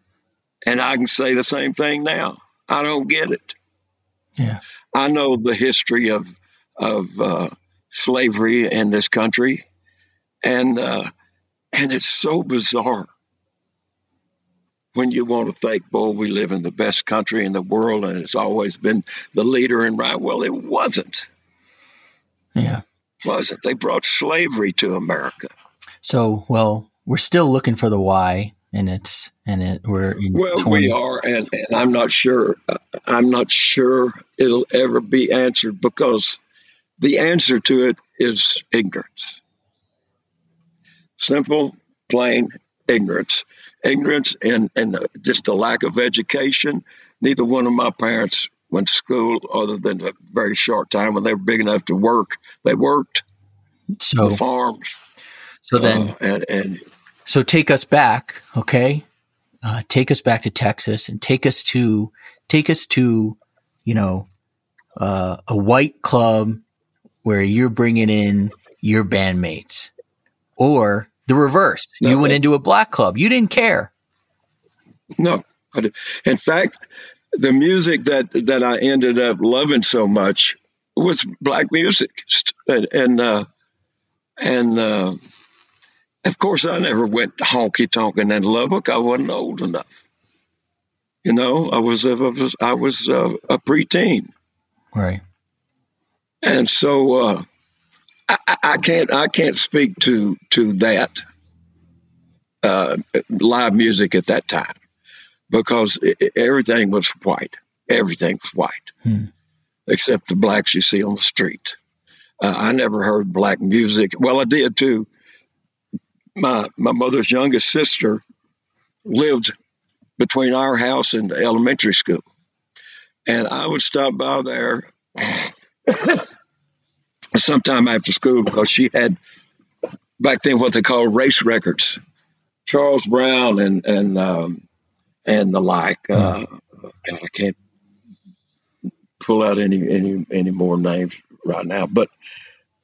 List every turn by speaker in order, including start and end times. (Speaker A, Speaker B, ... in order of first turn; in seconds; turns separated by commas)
Speaker A: 0.7-3.6, Speaker A: 4.9-9.7, Speaker A: 10.4-11.1, Speaker A: 11.8-13.1, Speaker A: 14.9-21.3, Speaker B: 22.6-22.8, Speaker A: 23.2-25.5, Speaker B: 26.0-31.0, Speaker A: 30.3-36.4, Speaker A: 37.0-39.4, Speaker A: 41.2-53.2, Speaker B: 54.0-54.4, Speaker A: 54.2-55.0, Speaker B: 55.6-56.1, Speaker A: 55.8-56.8, Speaker B: 57.3-59.1, Speaker B: 59.6-64.3, Speaker B: 65.0-66.6, Speaker B: 67.2-69.9, Speaker B: 70.6-73.9, Speaker A: 72.0-72.4, Speaker A: 75.2-76.8, Speaker A: 77.3-83.5, Speaker A: 84.4-85.2, Speaker A: 86.2-90.0, Speaker A: 91.2-94.3, Speaker B: 94.9-95.2, Speaker A: 96.4-97.4, Speaker A: 98.3-101.2, Speaker A: 102.6-104.8, Speaker A: 105.5-108.9, Speaker A: 109.9-111.8, Speaker A: 112.4-115.1, Speaker A: 116.4-118.2, Speaker A: 119.0-119.5, Speaker A: 120.2-122.2, Speaker A: 123.3-126.2, Speaker A: 127.3-129.2, Speaker A: 130.2-132.0, Speaker A: 132.7-134.6, Speaker A: 135.3-136.5, Speaker A: 137.0-137.6, Speaker A: 139.2-142.1